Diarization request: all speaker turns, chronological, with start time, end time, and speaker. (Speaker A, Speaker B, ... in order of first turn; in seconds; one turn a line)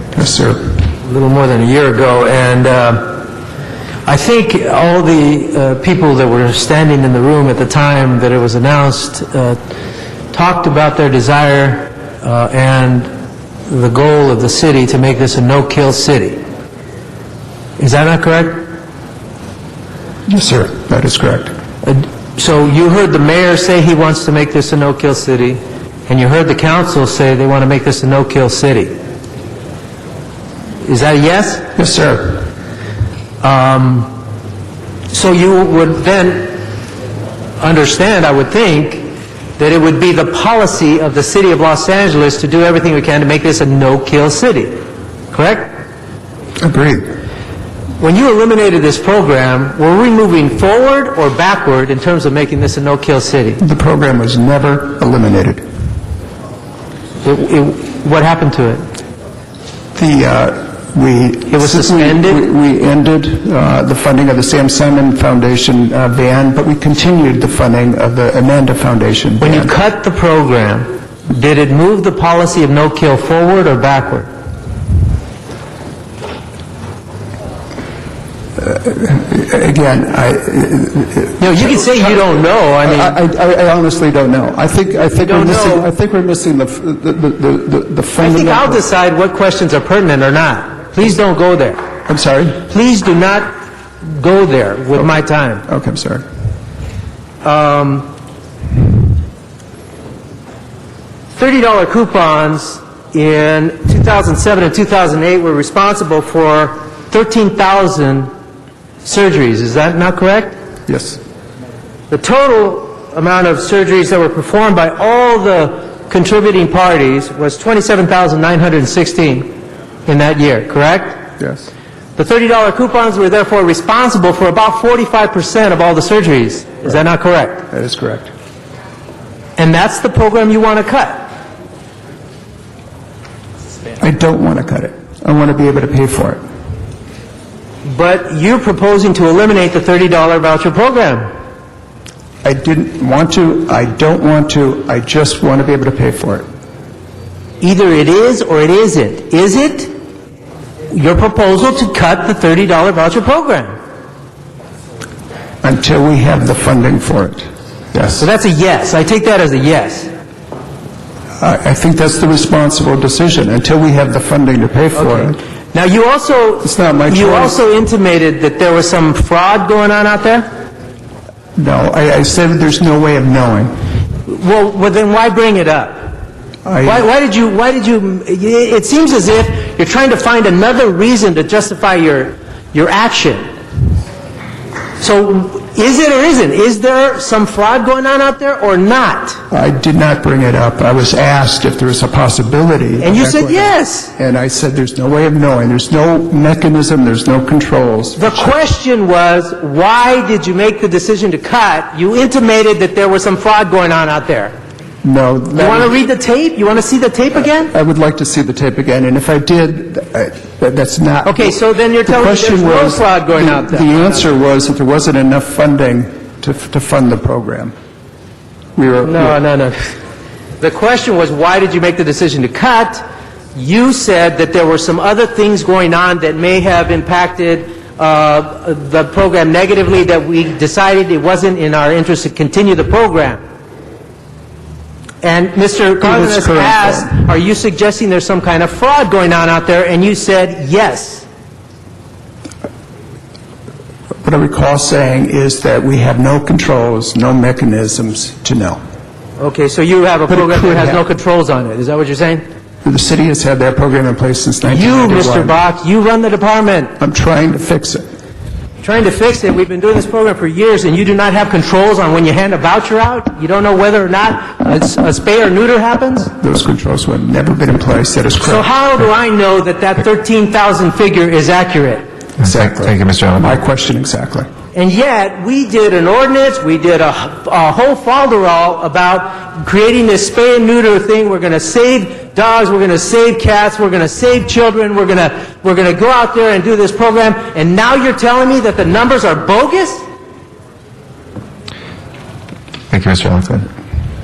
Speaker A: 0.1-0.6
Speaker B: 1.0-3.2
Speaker B: 4.0-9.6
Speaker B: 10.3-13.1
Speaker B: 13.7-16.4
Speaker B: 17.8-18.7
Speaker A: 20.3-21.5
Speaker B: 21.8-28.9
Speaker B: 30.8-31.7
Speaker A: 31.8-32.5
Speaker B: 33.4-34.1
Speaker B: 35.1-36.6
Speaker B: 37.6-45.7
Speaker A: 46.6-47.1
Speaker B: 48.0-53.6
Speaker A: 53.6-55.6
Speaker B: 57.2-58.8
Speaker A: 59.9-69.7
Speaker B: 61.5-62.5
Speaker B: 69.4-74.3
Speaker A: 78.6-82.0
Speaker B: 81.4-83.2
Speaker A: 82.8-88.8
Speaker B: 85.1-85.9
Speaker B: 88.2-91.8
Speaker A: 92.0-92.6
Speaker B: 92.6-95.6
Speaker A: 95.7-96.2
Speaker B: 97.4-98.1
Speaker B: 101.3-108.3
Speaker B: 109.0-110.5
Speaker A: 110.9-111.2
Speaker B: 112.1-119.5
Speaker B: 120.0-121.2
Speaker A: 121.4-121.7
Speaker B: 122.2-127.6
Speaker A: 127.7-128.3
Speaker B: 129.6-131.3
Speaker A: 134.0-136.4
Speaker B: 137.8-141.3
Speaker A: 142.4-146.4
Speaker B: 147.6-149.9
Speaker B: 150.9-153.7
Speaker A: 155.6-158.3
Speaker B: 158.2-160.1
Speaker A: 161.4-165.4
Speaker B: 165.0-170.5
Speaker A: 166.6-167.5
Speaker A: 171.6-173.7
Speaker B: 174.2-176.1
Speaker A: 176.6-177.1
Speaker B: 176.8-183.5
Speaker B: 185.0-189.4
Speaker A: 189.5-198.6
Speaker B: 193.0-194.1
Speaker B: 198.2-204.5
Speaker A: 205.0-206.0
Speaker B: 205.5-207.7
Speaker A: 207.7-217.7
Speaker B: 211.2-214.3
Speaker A: 218.8-219.4
Speaker B: 219.0-219.9
Speaker B: 220.6-223.0
Speaker B: 223.5-233.4
Speaker B: 235.2-241.2
Speaker A: 236.0-237.2
Speaker A: 244.2-248.8
Speaker B: 249.4-252.4
Speaker A: 250.3-251.0
Speaker A: 252.8-255.6
Speaker B: 254.6-256.9
Speaker A: 257.0-258.0
Speaker B: 258.8-266.3
Speaker A: 266.4-268.7
Speaker B: 268.4-272.0
Speaker A: 272.4-274.5
Speaker C: 272.4-273.6
Speaker B: 274.7-290.0
Speaker C: 292.9-293.7